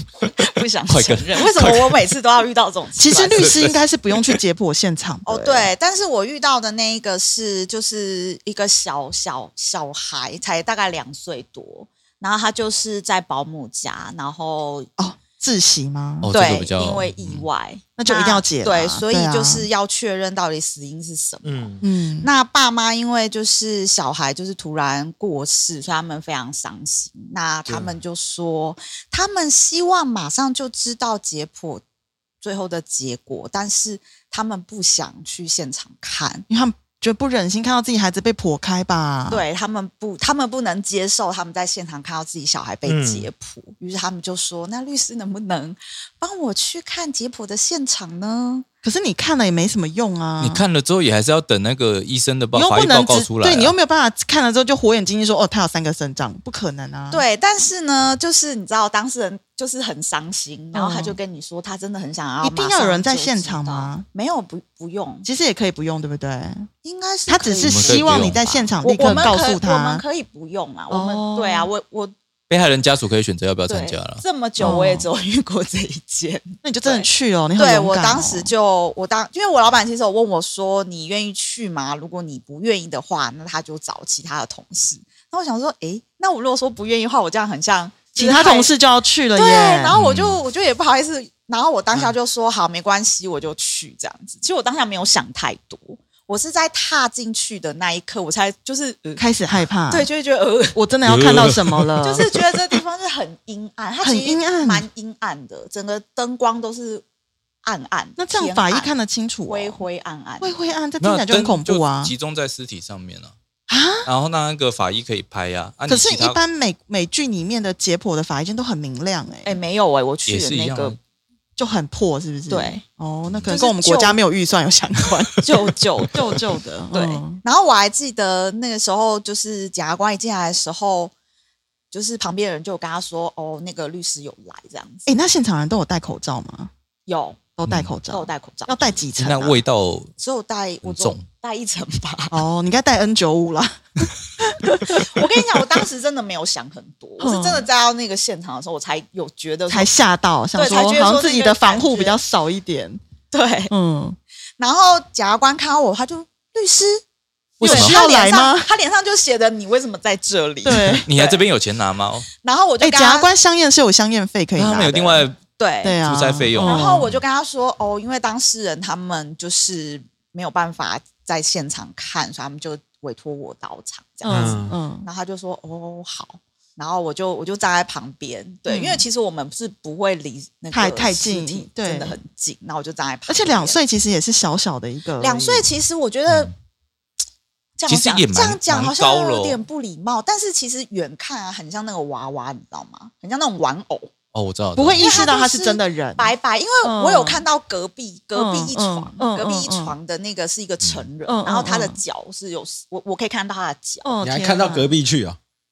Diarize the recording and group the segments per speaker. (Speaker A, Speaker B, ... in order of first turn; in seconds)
Speaker A: 0.4-3.6, 5.3-14.9, 16.3-31.8, 32.4-36.5, 39.3-48.7, 57.1-65.3, 66.8-72.1, 73.7-88.7, 89.3-99.2, 99.9-100.8, 102.0-107.0, 107.6-108.9, 109.5-110.5, 119.5-121.0, 122.5-122.8, 123.5-124.2, 125.4-126.3, 126.9-131.1, 131.9-135.1, 137.1-137.5, 138.1-139.0, 140.2-142.4, 144.8-149.9, 150.6-152.2, 153.3-153.7, 154.6-157.0, 157.6-161.5, 162.4-163.3, 165.6-166.0, 166.6-183.8, 185.2-186.5, 187.8-194.1, 195.0-204.1
Speaker B: 0.9-2.0, 3.4-3.8, 16.2-17.5, 50.4-53.7, 67.6-68.4, 72.5-74.2, 89.9-90.4, 101.1-102.2, 111.0-113.3, 114.0-116.4, 120.3-121.0, 123.3-123.5, 139.2-140.1, 140.8-141.2, 157.6-158.0, 161.0-162.3, 164.6-165.4, 166.0-166.9, 186.3-186.5, 187.9-189.6, 194.3-195.3
Speaker C: 3.0-5.7, 15.0-16.3, 18.0-19.7, 21.8-22.3, 36.5-39.5, 48.8-50.6, 52.5-57.2, 60.7-61.2, 62.4-64.1, 65.2-66.7, 67.3-70.0, 70.9-71.7, 74.6-75.1, 76.6-78.5, 88.2-90.0, 99.2-100.1, 100.8-102.3, 104.0-104.9, 108.2-109.8, 110.4-112.1, 113.7-114.1, 115.9-119.6, 121.6-127.4, 135.1-136.7, 137.6-139.6, 142.3-145.3, 147.2-147.7, 149.7-153.0, 153.7-154.2, 157.6-158.7, 160.6-161.1, 162.8-165.2, 165.8-167.2, 174.2-175.1, 178.7-179.1, 180.7-182.2, 183.3-185.7, 194.8-197.4, 198.3-199.9, 201.3-202.0, 204.0-204.9
Speaker D: 21.4-21.8, 27.7-27.9, 42.9-43.3, 174.3-174.8, 204.2-205.4